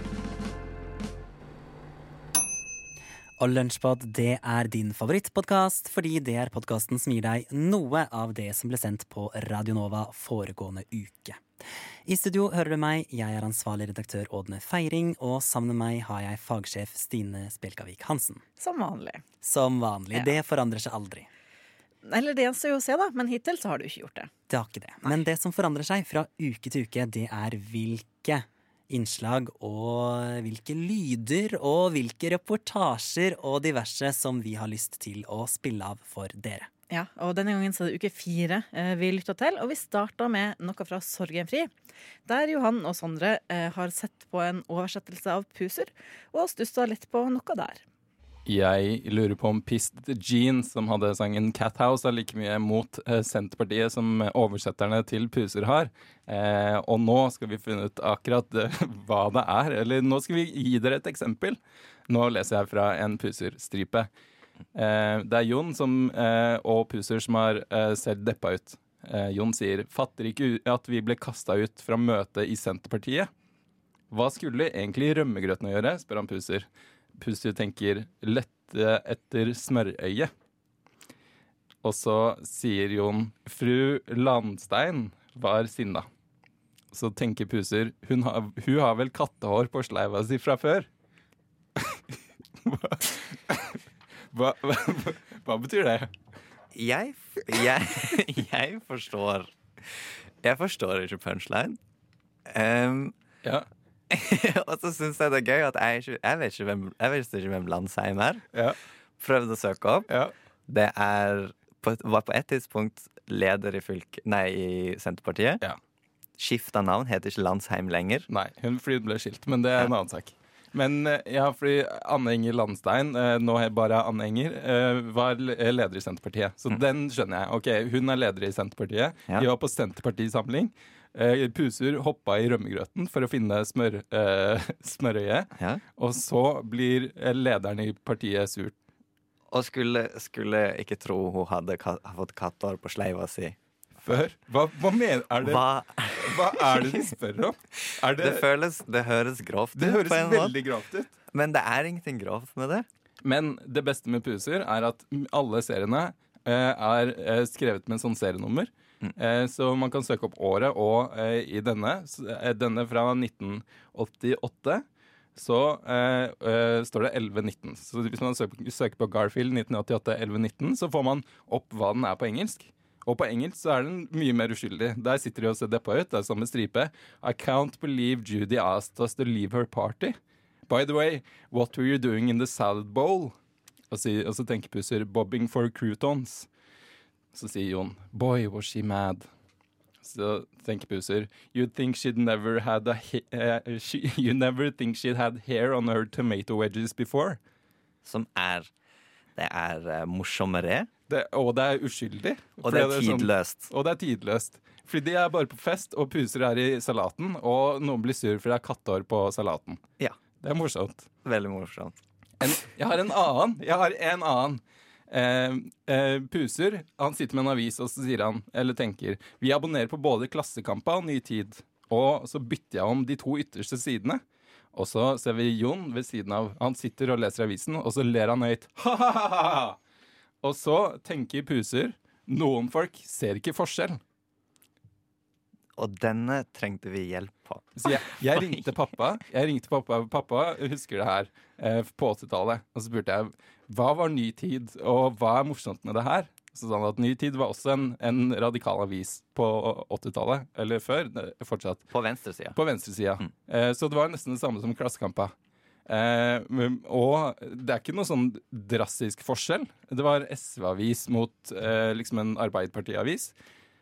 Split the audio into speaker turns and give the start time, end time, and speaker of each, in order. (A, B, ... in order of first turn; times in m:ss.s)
0:03.4-0:11.4 A
0:12.1-0:18.4 A
0:18.6-0:19.2 B
0:19.4-0:21.3 A
0:20.1-0:20.4 B
0:22.0-0:24.3 B
0:24.5-0:36.7 A
0:36.9-0:41.7 B
0:42.3-0:47.8 B
0:48.5-1:04.1 C
1:04.7-1:13.3 C
1:14.1-1:20.3 C
1:21.8-1:26.1 C
1:26.9-1:30.9 C
1:32.6-1:33.8 C
1:34.3-1:36.1 C
1:36.8-1:39.5 D
1:40.4-1:41.8 D
1:42.5-1:43.1 D
1:44.1-1:48.4 D
1:49.2-1:50.1 D
1:50.7-1:55.6 D
1:56.4-1:58.3 D
1:58.3-2:18.8 C
2:19.5-2:23.6 D
2:24.0-2:25.7 C
2:25.4-2:27.0 D
2:26.2-2:28.4 C
2:28.2-2:30.6 D
2:29.7-2:31.1 C
2:31.3-2:32.9 D
2:33.2-2:44.8 C
2:45.4-3:00.2 C
3:00.7-3:03.4 C
3:03.9-3:06.5 C
3:07.3-3:09.3 C
3:10.0-3:17.4 C
3:18.0-3:18.7 D
3:19.4-3:20.9 D
3:21.1-3:29.8 C
3:22.6-3:23.7 D
3:30.4-3:31.1 C
3:31.2-3:32.0 D
3:32.4-3:44.2 C
3:44.7-3:49.8 C
3:50.4-3:54.0 C
3:55.8-3:58.6 D
3:57.8-4:11.9 C
4:11.9-4:12.6 D
4:12.5-4:15.3 C
4:15.9-4:23.3 C